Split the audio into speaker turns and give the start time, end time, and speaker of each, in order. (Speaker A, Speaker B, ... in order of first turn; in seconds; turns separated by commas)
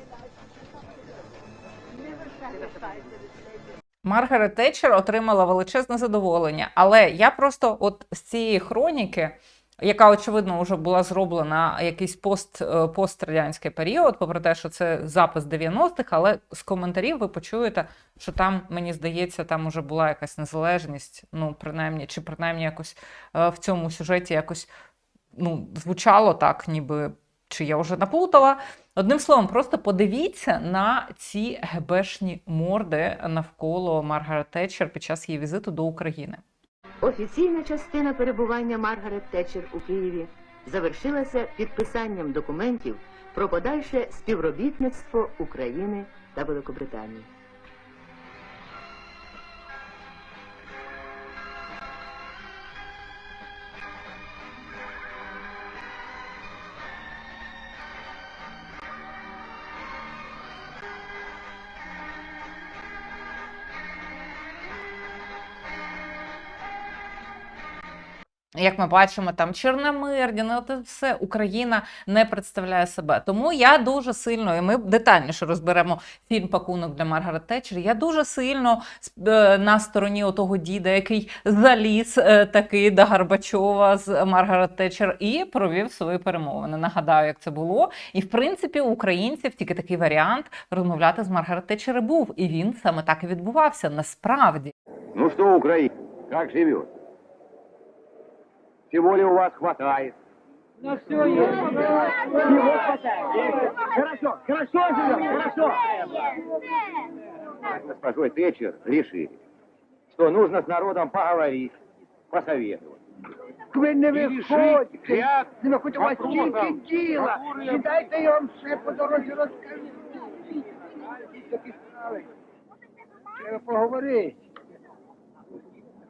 Speaker A: 4.0-24.7, Speaker A: 25.3-36.4, Speaker B: 37.0-47.3, Speaker A: 68.6-94.7, Speaker C: 95.1-96.9, Speaker C: 98.9-100.2, Speaker D: 101.0-102.7, Speaker D: 103.3-105.8, Speaker C: 107.7-109.4, Speaker C: 110.1-111.7, Speaker C: 112.3-113.0, Speaker D: 113.7-122.3, Speaker C: 114.2-115.4, Speaker C: 116.1-116.8, Speaker C: 117.4-117.7, Speaker D: 123.4-124.4